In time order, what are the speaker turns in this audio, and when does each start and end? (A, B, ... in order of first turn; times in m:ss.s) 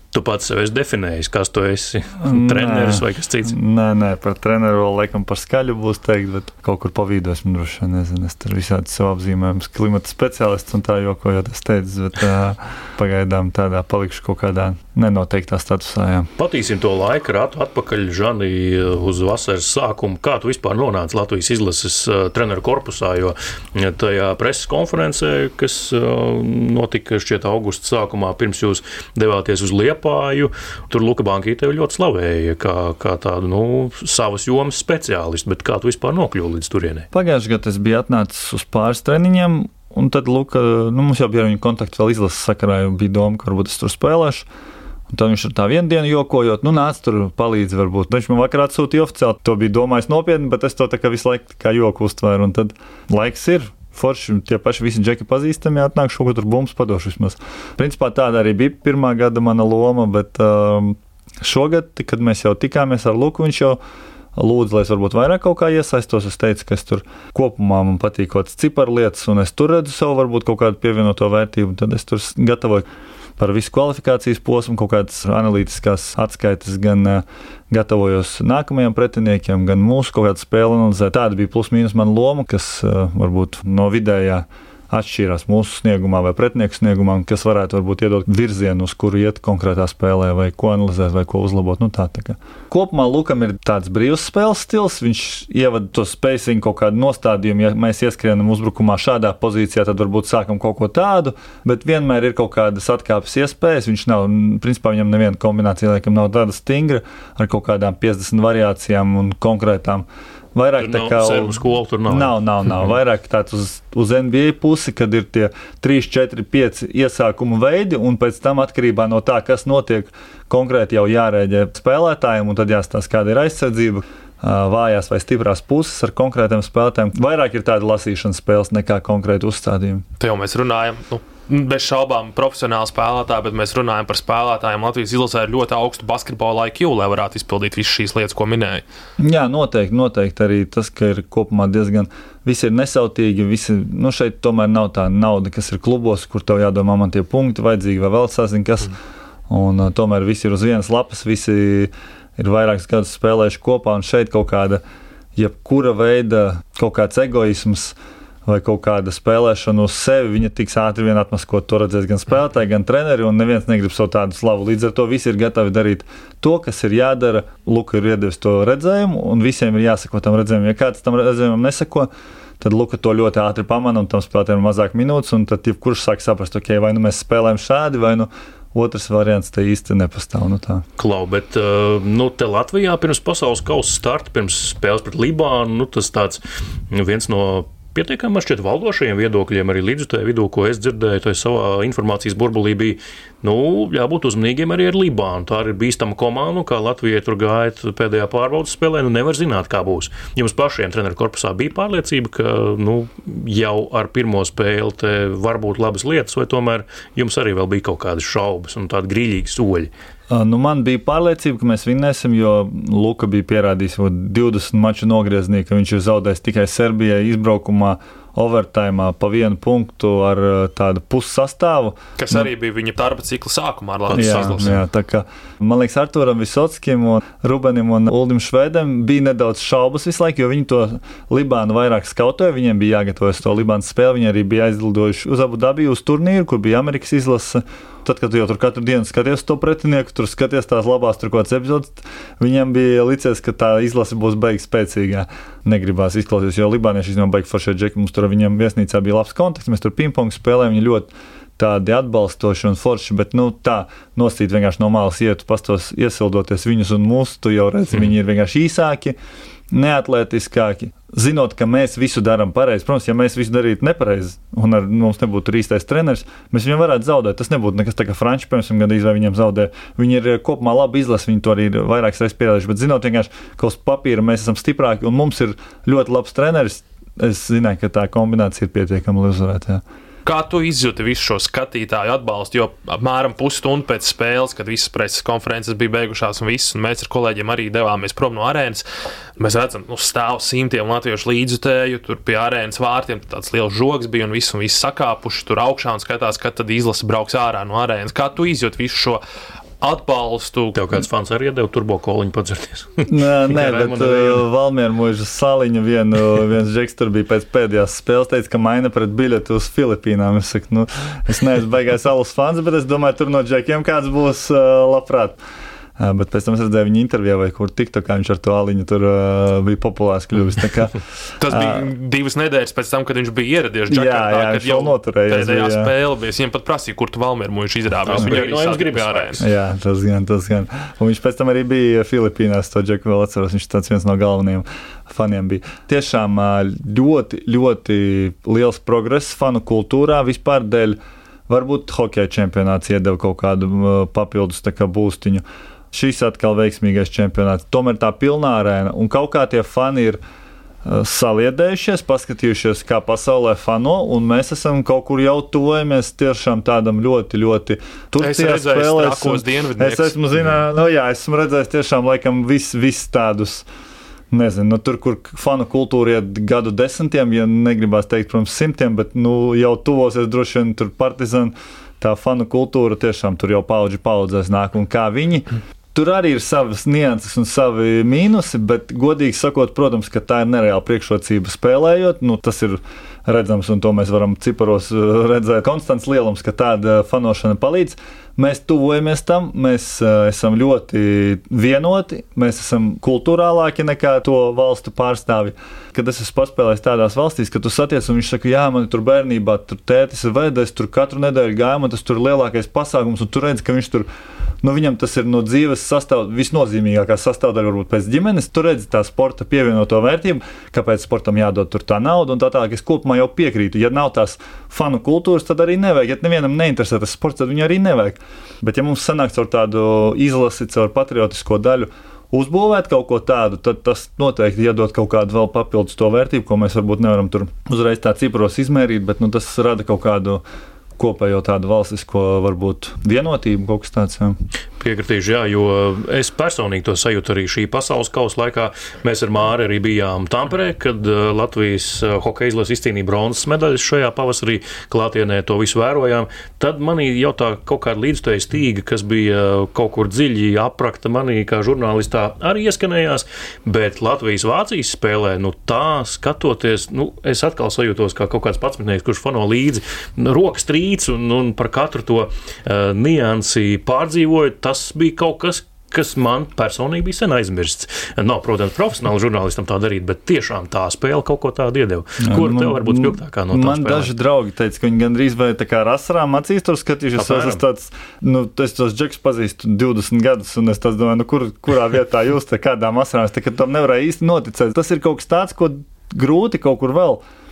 0:00.1-0:03.6 A
0:02.2-0:16.3 B
0:16.4-0:37.1 A
0:37.1-0:44.5 B
0:45.1-1:03.8 B
1:04.4-1:12.9 B
1:13.4-2:10.0 B
1:50.8-1:52.9 A
2:10.2-2:18.8 C
2:19.2-2:29.0 B
2:29.5-2:34.8 B
2:35.4-3:00.8 B
3:01.0-3:29.9 A
3:30.3-3:42.4 B
3:42.2-3:44.8 C
3:44.1-3:44.8 A
3:44.2-4:19.2 B
4:19.7-4:39.8 B
4:40.2-4:48.9 C
4:49.4-4:59.2 C
4:59.8-5:00.8 C
5:00.7-5:04.4 A
5:03.1-5:15.4 B
5:16.0-5:21.9 B
5:21.4-5:29.4 C
5:23.9-5:25.9 B
5:28.1-5:29.4 A
5:29.4-5:50.2 B
5:50.8-6:03.7 B
5:58.2-6:00.2 C
6:04.3-6:44.1 B
6:44.6-7:10.4 B
7:11.0-7:14.4 B
7:14.8-7:54.1 A
7:52.2-8:07.2 B
7:57.2-7:57.6 A